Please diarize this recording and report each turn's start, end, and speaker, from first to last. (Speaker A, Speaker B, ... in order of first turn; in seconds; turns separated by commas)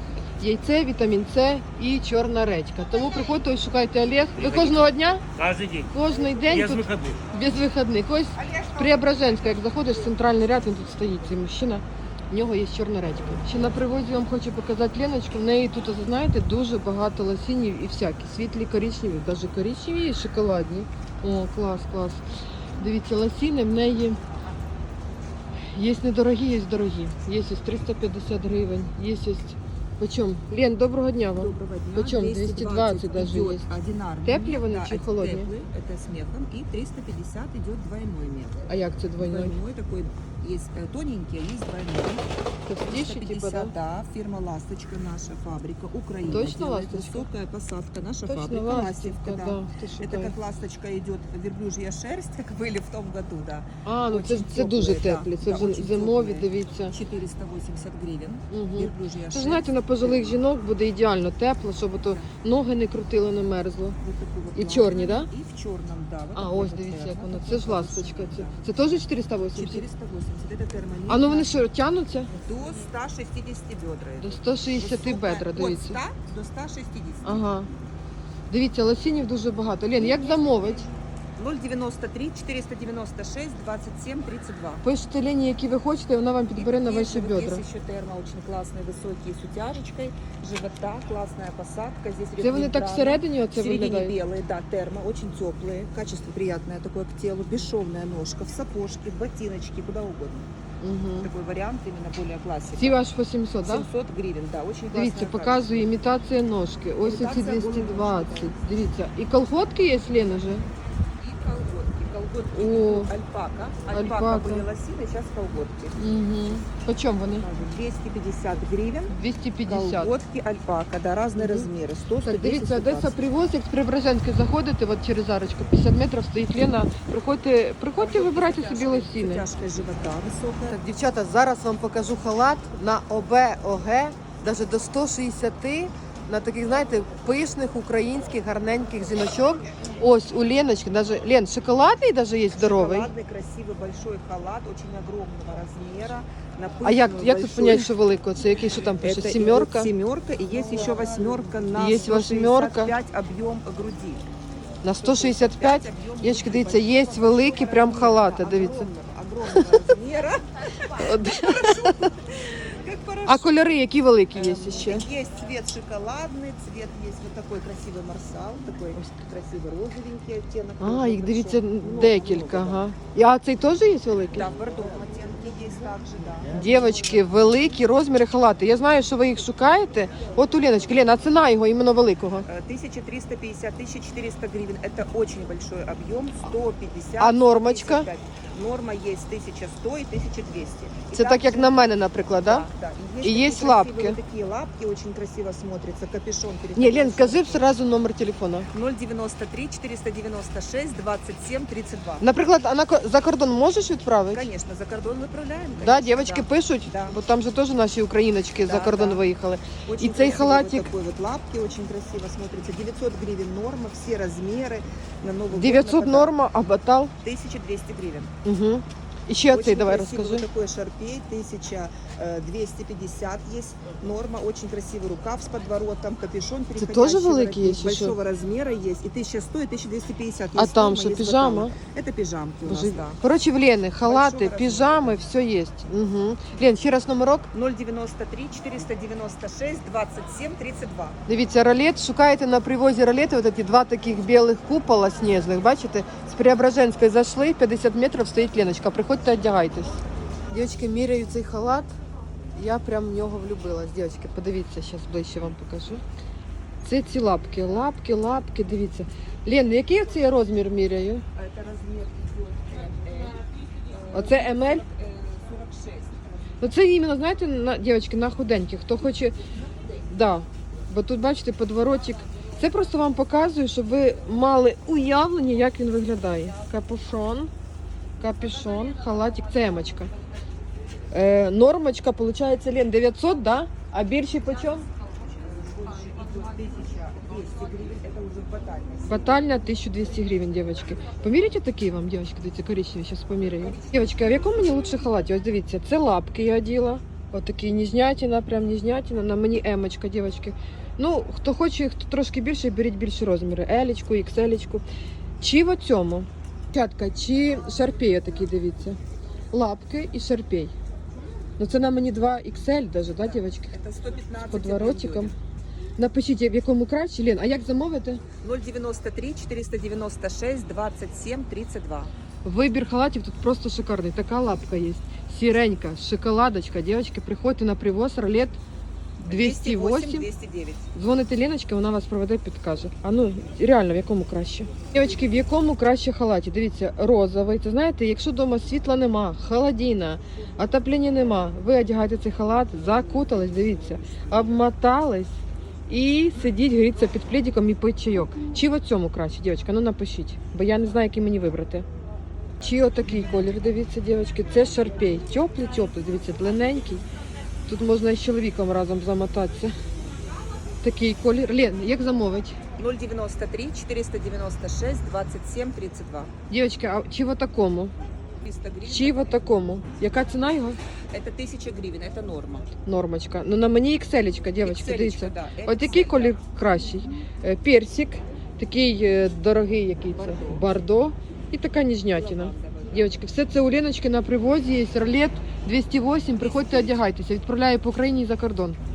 Speaker A: 0.4-5.2, Speaker B: 4.4-5.9, Speaker A: 5.9-22.3, Speaker B: 6.5-7.2, Speaker C: 8.4-9.0, Speaker A: 22.8-24.2, Speaker A: 25.6-33.7, Speaker C: 31.4-38.6, Speaker A: 34.2-35.5, Speaker A: 38.7-39.6, Speaker C: 39.2-42.3, Speaker A: 42.7-43.7, Speaker C: 42.9-60.4, Speaker A: 46.3-47.3, Speaker A: 48.3-50.4, Speaker A: 53.9-57.0, Speaker A: 58.5-64.0, Speaker C: 64.0-68.6, Speaker A: 64.5-65.3, Speaker A: 66.3-69.8, Speaker C: 69.5-71.7, Speaker A: 71.1-72.3, Speaker C: 72.3-77.5, Speaker A: 74.2-76.0, Speaker A: 77.2-77.7, Speaker A: 78.5-80.9, Speaker C: 80.0-84.8, Speaker A: 84.8-87.6, Speaker C: 86.5-100.5, Speaker A: 92.4-94.2, Speaker A: 100.8-101.3, Speaker C: 101.2-103.0, Speaker A: 102.8-103.9, Speaker C: 103.6-105.8, Speaker A: 104.9-110.7, Speaker C: 107.0-108.6, Speaker C: 111.2-116.1, Speaker A: 112.5-113.1, Speaker A: 113.9-114.7, Speaker A: 116.0-117.5, Speaker C: 117.4-123.2, Speaker A: 119.1-120.1, Speaker A: 121.4-121.7, Speaker A: 122.2-129.5, Speaker C: 128.0-130.8, Speaker A: 130.7-143.1, Speaker C: 142.6-147.9, Speaker A: 146.8-149.9, Speaker C: 149.0-154.3, Speaker A: 150.5-152.9, Speaker A: 154.8-158.9, Speaker C: 155.0-163.5, Speaker A: 160.9-162.1, Speaker A: 163.3-165.1, Speaker C: 164.3-172.9, Speaker A: 170.8-174.5, Speaker C: 174.3-177.8, Speaker A: 176.5-182.5, Speaker C: 182.4-191.8, Speaker A: 187.2-188.1, Speaker A: 191.1-192.7, Speaker C: 192.4-197.7, Speaker A: 193.2-194.2, Speaker A: 196.8-198.7, Speaker C: 198.7-202.3, Speaker A: 202.2-204.5, Speaker C: 204.3-207.2, Speaker A: 205.8-210.9, Speaker C: 208.6-209.2, Speaker C: 209.9-216.3, Speaker A: 215.5-217.1, Speaker C: 217.2-218.3, Speaker A: 218.4-220.5, Speaker C: 219.5-233.2, Speaker A: 226.8-228.2, Speaker A: 230.6-231.8, Speaker A: 232.7-237.5, Speaker C: 234.0-235.1, Speaker C: 237.5-241.2, Speaker A: 241.3-249.9, Speaker A: 250.5-251.9, Speaker A: 252.6-256.0, Speaker A: 256.8-261.2, Speaker C: 261.4-266.6, Speaker A: 264.1-264.9, Speaker A: 266.6-269.4, Speaker A: 270.1-277.5, Speaker A: 278.2-280.1, Speaker A: 281.1-284.9, Speaker C: 284.5-289.4, Speaker A: 289.1-304.9, Speaker C: 293.6-295.1, Speaker A: 305.4-309.0, Speaker A: 309.5-310.8, Speaker A: 311.6-313.8, Speaker C: 313.2-315.4, Speaker A: 314.5-315.3, Speaker A: 316.0-318.2, Speaker C: 318.4-322.1, Speaker A: 322.4-328.6, Speaker A: 329.2-330.3, Speaker C: 329.2-330.9, Speaker A: 330.9-351.9, Speaker A: 352.6-357.1, Speaker A: 357.7-359.7, Speaker A: 360.8-362.6, Speaker C: 362.8-366.3, Speaker A: 366.5-367.9, Speaker C: 368.4-369.4, Speaker A: 368.9-370.8, Speaker C: 371.1-372.7, Speaker A: 372.9-388.8, Speaker C: 374.6-376.4, Speaker C: 380.1-380.7, Speaker C: 382.1-383.3, Speaker C: 386.4-387.0